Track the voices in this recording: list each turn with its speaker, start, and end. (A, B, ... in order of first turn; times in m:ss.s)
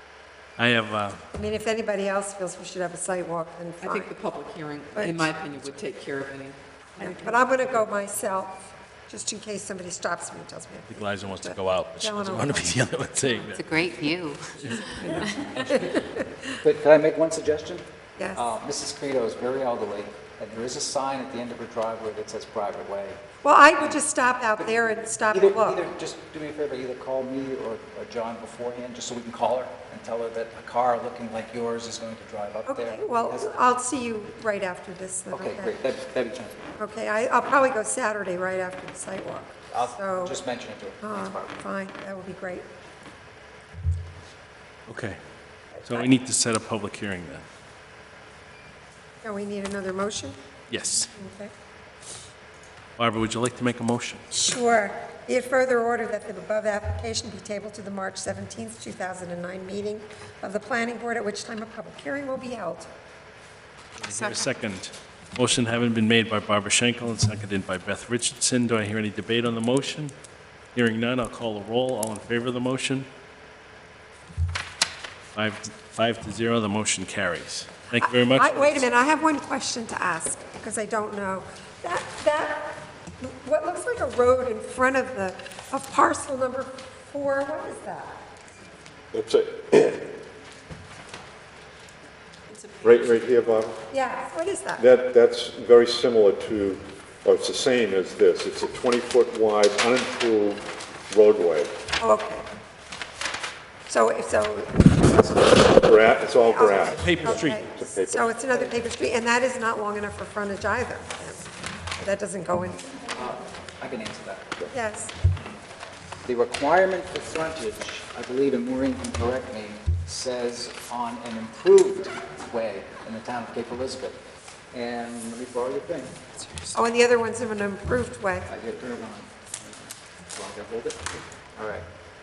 0:00.6-0:01.2 A
0:01.3-0:04.1 B
0:03.8-0:07.7 C
0:04.9-0:05.4 B
0:07.0-0:13.5 B
0:10.9-0:13.7 A
0:13.5-0:15.5 D
0:14.7-0:16.5 B
0:15.5-0:15.9 E
0:16.6-0:33.5 E
0:18.2-0:18.5 B
0:23.4-0:25.8 B
0:32.6-0:35.7 B
0:35.3-0:36.7 E
0:36.8-0:40.4 B
0:39.7-0:41.5 E
0:41.0-0:42.7 B
0:44.9-0:45.2 A
0:45.8-0:47.4 A
0:49.2-0:50.4 B
0:50.7-0:51.1 A
0:51.1-0:51.5 B
0:53.0-0:54.2 A
0:54.3-1:02.9 B
1:04.0-1:10.1 A
1:04.1-1:04.4 B
1:10.7-1:13.1 A
1:15.3-1:18.8 A
1:18.0-1:28.3 B
1:29.1-1:30.2 F
1:32.5-1:33.1 C
1:32.8-1:33.8 F
1:33.9-1:34.8 B
1:34.8-1:41.7 F
1:42.0-1:42.4 B
1:43.9-1:45.3 B
1:45.2-1:48.7 F
1:46.3-1:53.0 B
1:46.9-1:47.6 A
1:53.1-1:54.5 E
1:54.7-1:55.1 B
1:56.2-2:04.2 E
2:04.7-2:06.8 E
2:06.7-2:08.5 B
2:08.5-2:11.8 E